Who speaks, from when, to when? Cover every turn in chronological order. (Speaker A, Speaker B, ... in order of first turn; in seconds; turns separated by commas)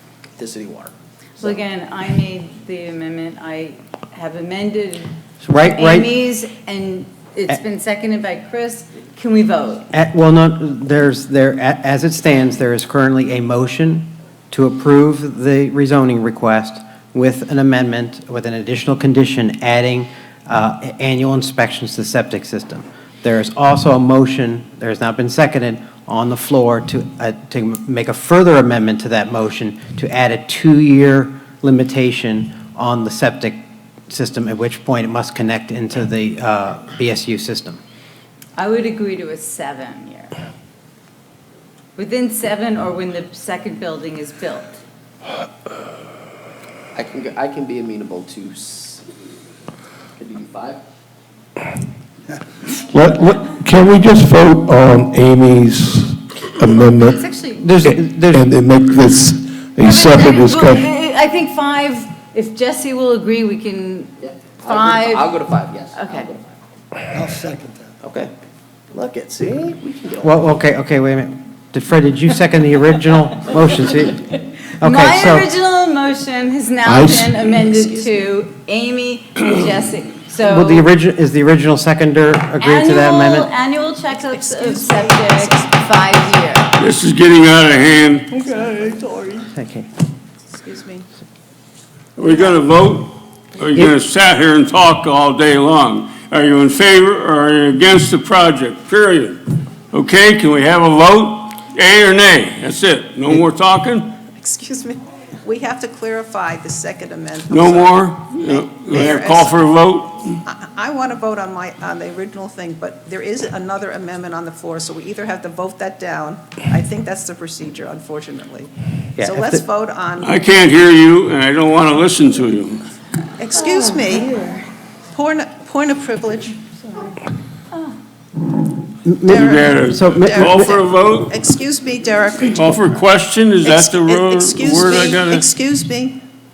Speaker A: 0.4-1.5, Speaker B: 1.4-9.9, Speaker C: 5.4-6.1, Speaker C: 9.9-37.8, Speaker B: 38.6-40.3, Speaker B: 42.0-44.8, Speaker A: 47.0-49.1, Speaker A: 50.2-50.8, Speaker D: 52.9-57.1, Speaker B: 57.1-57.9, Speaker C: 57.6-58.5, Speaker D: 58.3-60.8, Speaker B: 59.8-65.4, Speaker A: 64.2-66.5, Speaker B: 65.9-66.3, Speaker A: 67.2-68.3, Speaker A: 68.9-70.5, Speaker C: 70.2-74.3, Speaker C: 74.8-75.5, Speaker B: 74.8-80.9, Speaker D: 77.0-77.3, Speaker E: 77.5-78.2, Speaker C: 80.4-83.5, Speaker B: 82.6-86.7, Speaker E: 84.3-86.4, Speaker F: 86.8-89.3, Speaker C: 89.5-89.9, Speaker E: 90.5-91.1, Speaker F: 92.2-99.4, Speaker E: 92.2-92.6, Speaker F: 99.9-104.2, Speaker E: 104.3-109.6, Speaker F: 107.5-110.4, Speaker E: 110.5-120.4, Speaker C: 119.2-119.6, Speaker F: 120.2-122.8, Speaker E: 123.4-124.4, Speaker E: 125.1-126.6, Speaker C: 129.1-130.7, Speaker F: 129.2-131.3, Speaker E: 129.3-132.9, Speaker F: 132.5-135.5, Speaker E: 133.6-136.2